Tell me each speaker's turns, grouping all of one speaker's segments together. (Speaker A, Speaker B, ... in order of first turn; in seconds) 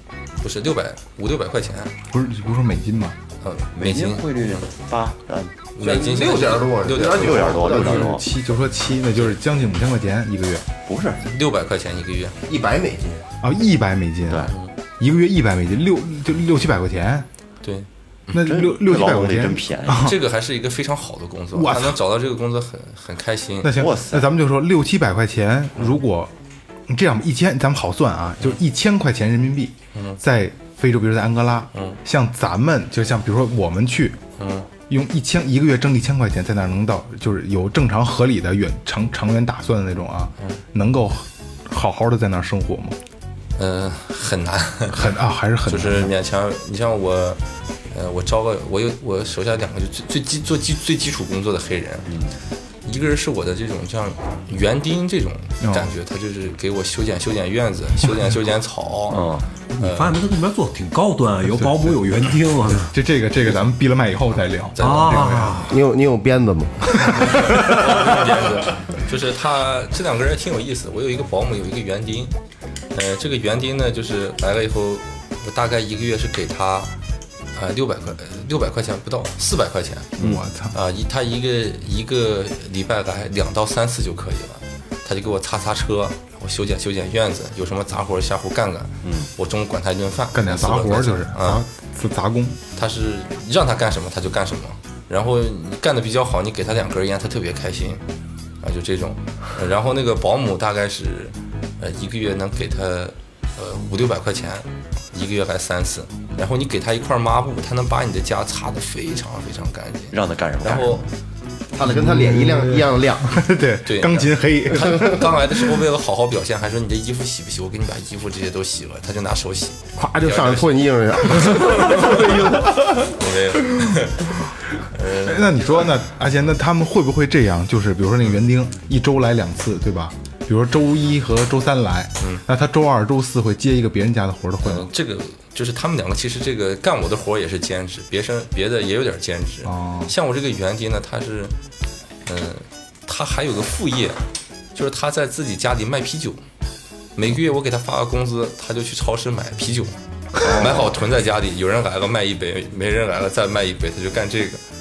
Speaker A: 0.4-1.9, 3.4-4.7, 5.8-7.7, 11.2-12.4, 17.6-18.4, 19.9-23.7, 29.9-30.2, 34.4-34.7, 43.6-45.1, 45.7-52.1, 52.9-60.2, 64.8-65.4, 67.1-72.3, 72.9-76.9, 77.5-80.2, 80.7-91.6, 92.8-98.0, 98.6-111.1, 113.8-125.6, 134.6-141.6, 142.3-144.2, 144.7-146.4, 147.2-154.6
Speaker B: 2.1-3.2, 7.9-10.7, 13.4-17.3, 18.3-20.2, 21.5-22.0, 23.6-26.3, 26.9-34.2, 34.9-43.0, 44.9-46.1, 55.6-55.9, 61.5-62.0, 62.9-65.7, 67.1-67.6, 80.2-80.8, 90.3-92.6, 111.8-115.6, 123.7-124.0, 125.1-134.9, 139.7-140.1
Speaker C: 3.7-5.5, 7.0-8.2, 10.9-11.2, 14.3-14.5, 18.4-20.1, 23.7-24.3, 52.1-52.4, 59.1-59.5, 80.2-80.4, 89.0-89.3, 110.1-111.0, 150.4-151.0
Speaker D: 5.8-8.2, 12.5-13.3, 65.7-67.8, 111.7-113.4, 120.0-122.7
Speaker E: 59.7-63.0, 64.8-65.7